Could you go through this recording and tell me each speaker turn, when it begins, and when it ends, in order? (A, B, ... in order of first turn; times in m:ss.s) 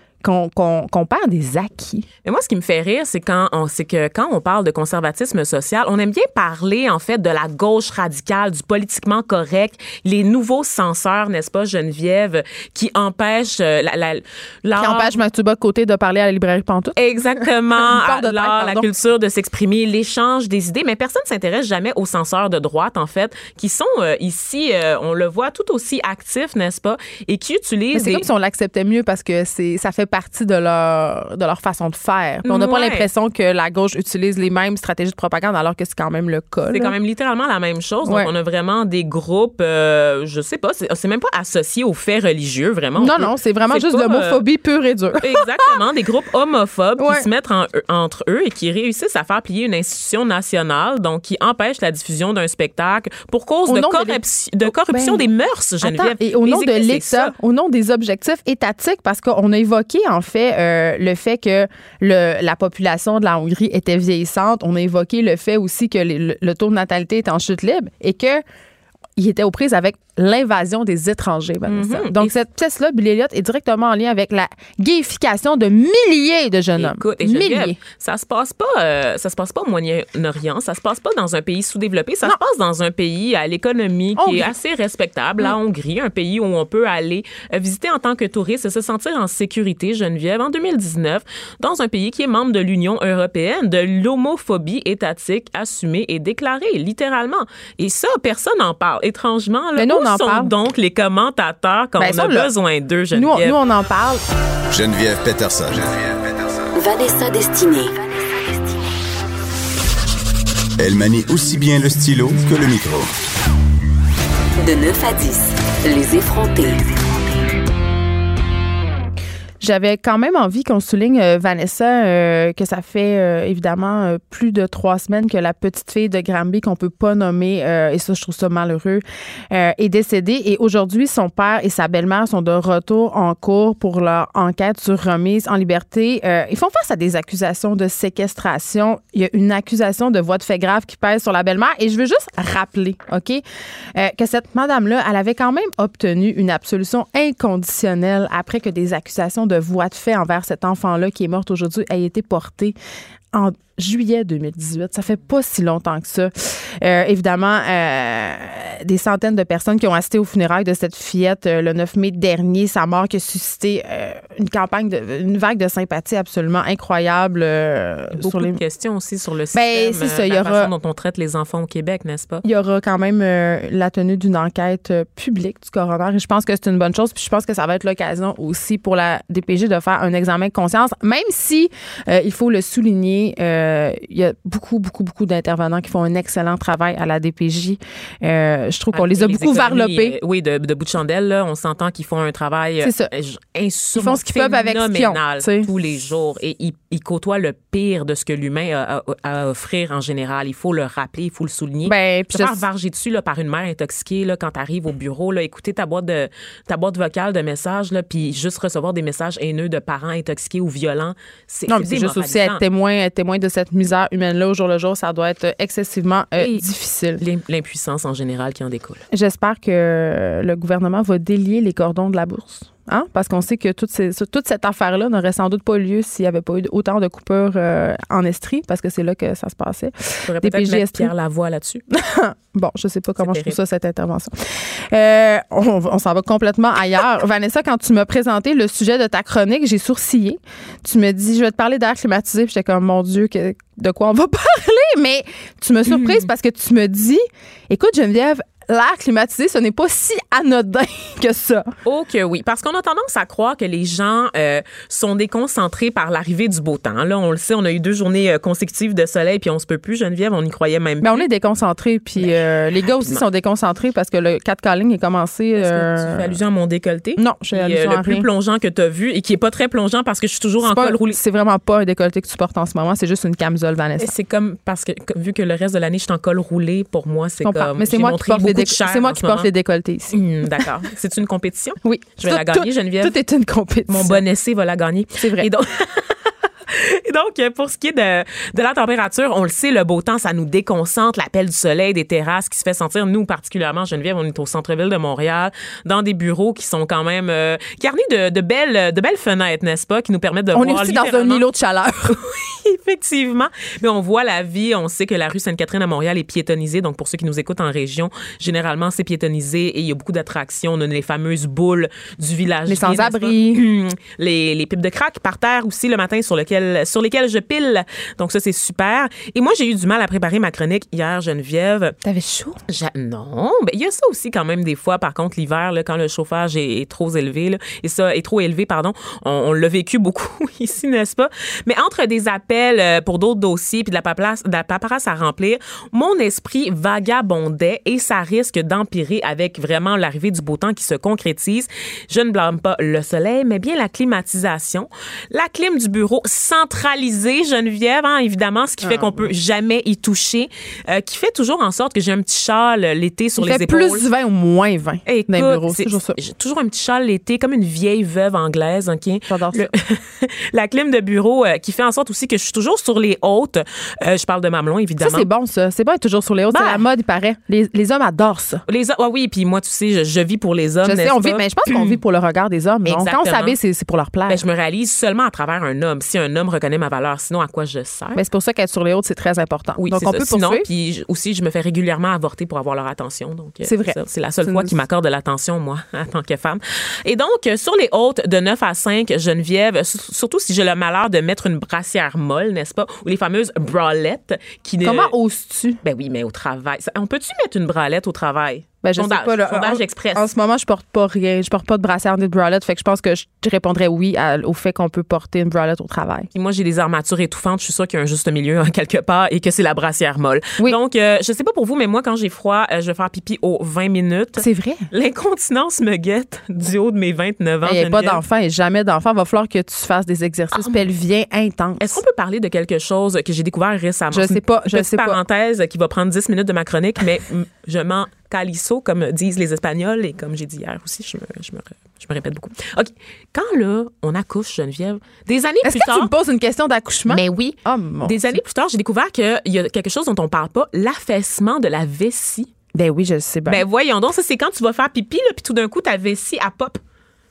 0:00.2-0:02.1 A
0:02.2-0:15.1 B
0:14.8-0:17.0 A
0:17.0-0:28.2 B
0:17.7-0:18.8 A
0:27.9-0:36.9 A
0:32.4-0:33.0 B
0:36.7-0:44.4 B
0:43.0-0:45.8 A
0:45.2-0:57.3 B
0:47.0-0:47.2 A
0:53.7-0:55.2 A
0:55.8-1:08.4 A
1:09.2-1:17.8 A
1:11.7-1:12.3 B
1:16.8-1:43.6 B
1:24.2-1:24.5 A
1:39.8-1:40.5 A
1:42.0-1:42.5 A
1:43.1-1:44.2 A
1:44.7-1:46.5 C
1:46.8-1:48.7 D
1:50.8-1:53.1 C
1:54.6-1:56.8 D
1:59.6-2:23.4 A
2:23.9-2:32.8 A
2:33.3-2:48.6 A
2:48.2-2:52.4 B
2:49.5-2:50.7 A
2:52.4-3:10.2 A
3:08.9-3:32.6 B
3:12.8-3:13.1 A
3:14.0-3:15.7 A
3:21.8-3:22.6 A
3:31.7-3:37.2 A
3:36.4-3:36.6 B
3:37.2-3:39.0 B
3:39.1-3:51.1 A
3:50.2-3:51.8 B
3:51.9-4:11.7 A
3:53.2-3:53.6 B
4:05.8-4:06.3 B
4:11.8-4:21.3 B
4:21.0-4:26.3 A
4:25.6-4:31.2 B
4:27.2-4:28.2 A
4:30.6-4:34.1 A
4:34.0-4:39.5 B
4:37.4-4:40.2 A
4:40.1-4:43.1 B
4:41.8-4:44.2 A
4:43.9-5:01.4 B
4:45.2-4:45.5 A
5:00.5-5:02.2 A
5:02.1-5:22.0 B
5:12.7-5:13.6 A
5:22.0-5:22.6 A
5:22.7-5:54.0 B
5:48.8-5:49.3 A
5:53.4-5:56.2 A
5:55.0-6:05.3 B
5:59.3-5:59.7 A
6:05.0-6:08.6 A
6:06.5-6:06.8 B
6:08.7-6:12.0 B
6:10.8-6:14.4 A
6:12.8-6:13.6 B
6:14.3-6:18.2 B
6:18.1-6:20.6 A
6:19.8-6:35.1 B
6:23.6-6:24.7 A
6:34.8-6:35.8 A
6:35.8-6:40.2 B
6:38.8-6:46.3 A
6:46.3-6:58.2 B
6:54.4-6:54.9 A
6:57.6-7:02.0 A
7:00.5-7:00.8 B
7:01.8-7:16.1 B
7:04.1-7:05.2 A
7:15.6-7:18.4 A
7:17.1-7:22.5 B
7:22.7-7:23.6 A
7:23.5-7:26.8 B